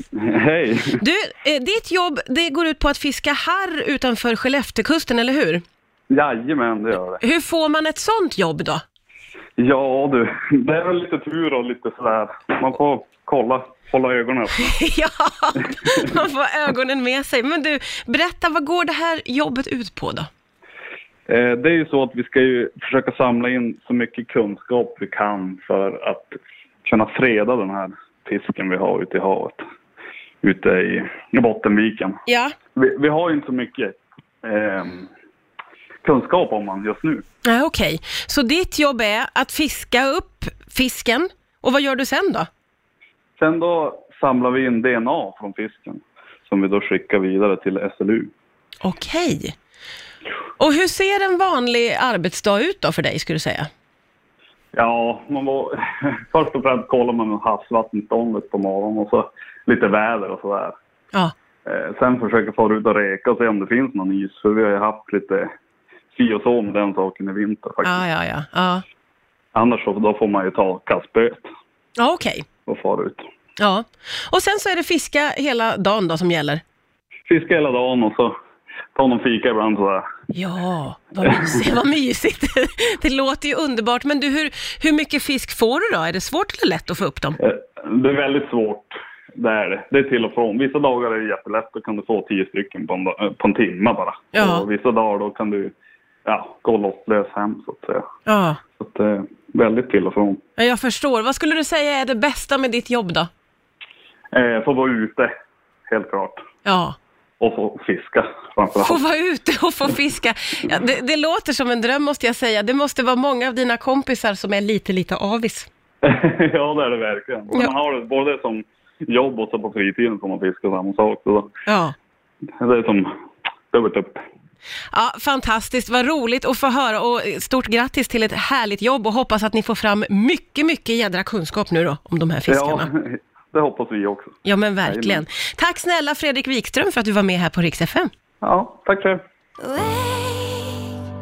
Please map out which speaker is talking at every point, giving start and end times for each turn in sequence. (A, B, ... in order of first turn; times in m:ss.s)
0:00.2-0:01.0 A
0:01.0-0:05.6 B
0:06.1-0:07.2 A
0:07.2-0:08.8 B
0:09.6-0:14.8 A
0:14.6-0:20.3 B
0:21.3-0:29.6 A
0:30.4-0:32.2 A
0:32.3-0:32.6 B
0:32.8-0:35.1 A
0:36.0-0:37.2 A
0:37.4-0:42.5 B
0:43.4-0:48.3 A
0:48.8-0:49.6 B
0:50.6-0:53.7 B
0:54.7-1:00.7 A
1:01.7-1:05.5 A
1:06.2-1:08.0 A
1:07.8-1:08.8 B
1:09.5-1:11.5 A
1:12.0-1:12.5 B
1:12.7-1:13.2 A
1:13.6-1:16.6 B
1:17.3-1:18.3 A
1:19.0-1:20.0 A
1:20.3-1:27.4 B
1:27.4-1:35.7 A
1:34.3-1:34.6 B
1:36.3-1:38.0 A
1:38.3-1:38.6 B
1:38.8-1:40.4 A
1:40.6-1:43.3 B
1:44.3-1:45.3 A
1:45.9-1:46.4 A
1:46.6-1:47.0 B
1:47.4-1:49.0 A
1:48.8-1:55.7 B
1:56.0-2:01.5 A
2:01.7-2:01.9 B
2:02.6-2:03.1 A
2:03.7-2:04.2 A
2:04.9-2:12.9 B
2:12.5-2:15.2 A
2:14.4-2:18.1 B
2:18.4-2:19.2 A
2:19.7-2:20.7 B